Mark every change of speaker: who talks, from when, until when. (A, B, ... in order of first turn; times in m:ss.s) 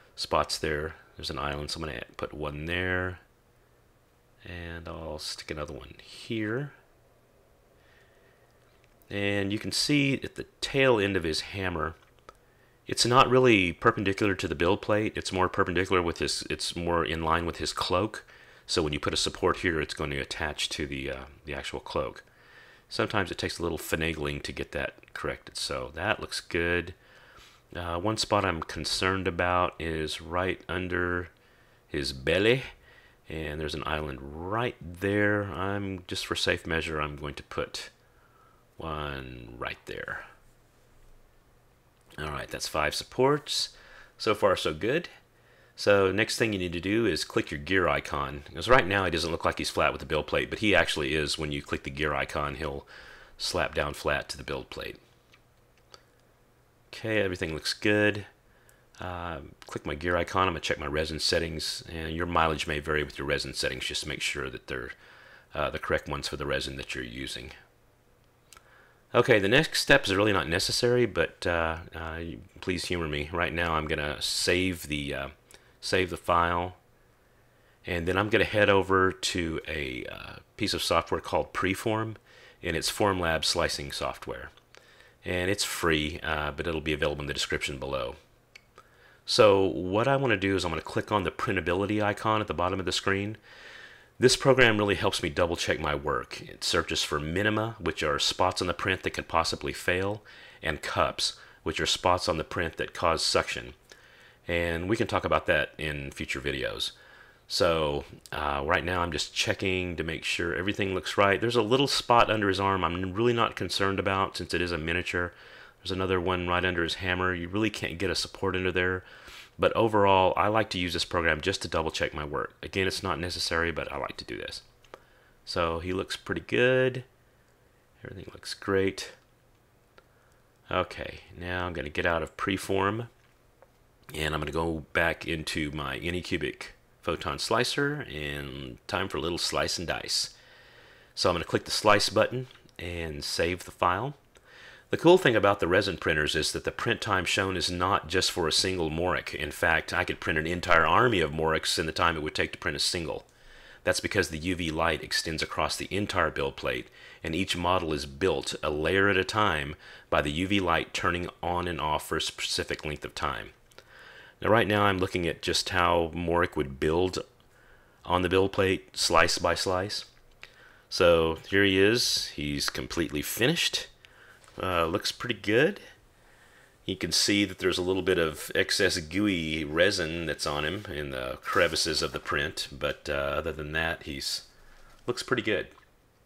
0:00.2-0:03.2 A
0:04.4-0:06.8 A
0:09.1-0:12.0 A
0:12.9-0:22.2 A
0:22.9-0:27.0 A
0:27.8-0:31.3 A
0:31.9-0:32.7 A
0:33.3-0:37.9 A
0:38.8-0:40.3 A
0:42.2-0:45.1 A
0:45.8-0:52.9 A
0:53.4-0:55.0 A
0:56.9-0:58.3 A
0:59.0-1:05.0 A
1:05.5-1:07.5 A
1:09.1-1:16.8 A
1:17.8-1:24.5 A
1:25.2-1:28.2 A
1:29.3-1:33.4 A
1:34.2-1:43.8 A
1:44.5-1:46.9 A
1:47.5-1:59.0 A
1:59.6-2:04.6 A
2:05.5-2:07.0 A
2:08.0-2:09.2 A
2:10.7-2:13.1 A
2:14.1-2:20.3 A
2:21.2-2:24.2 A
2:24.9-2:33.3 A
2:33.8-2:43.5 A
2:44.4-2:47.2 A
2:48.0-2:50.1 A
2:50.9-2:53.9 A
2:54.6-2:55.8 A
2:56.9-3:04.5 A
3:05.1-3:05.7 A